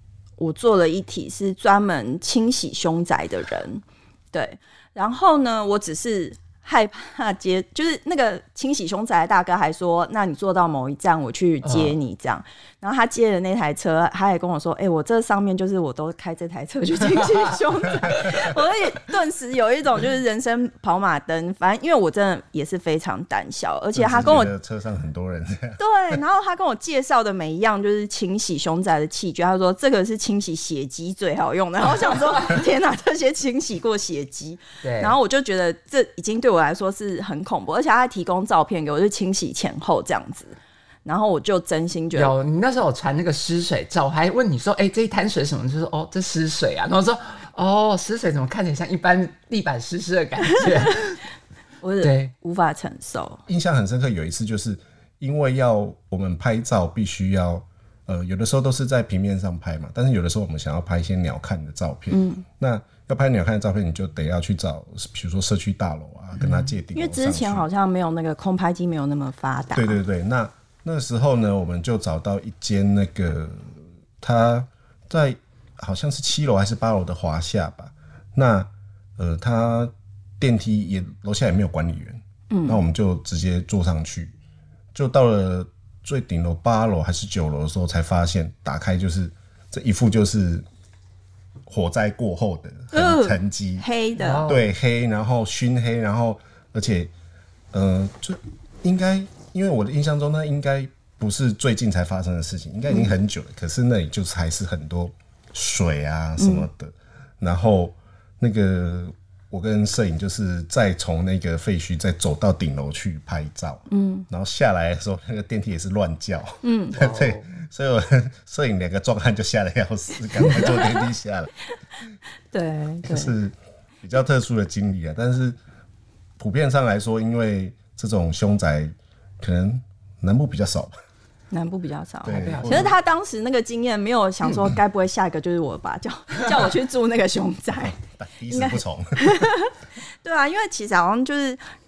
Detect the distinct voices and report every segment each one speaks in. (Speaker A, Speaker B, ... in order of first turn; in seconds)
Speaker A: 0.4-24.5, 25.8-42.3, 51.8-53.4, 62.1-62.4, 66.9-70.0, 82.5-82.8, 92.9-94.5, 106.4-106.7, 113.9-114.3, 116.6-117.0, 122.5-123.3, 131.5-138.0, 138.5-141.6
Speaker B: 11.6-12.0, 34.8-35.2, 42.1-51.2, 52.0-52.3, 66.3-66.7, 94.2-94.7, 116.9-117.5, 132.2-132.9
Speaker C: 23.9-25.8, 53.5-67.7, 69.7-84.3, 84.9-90.6, 91.7-93.8, 94.5-97.1, 97.7-121.5, 123.0-125.6, 126.4-130.9, 132.2-132.9, 137.8-139.2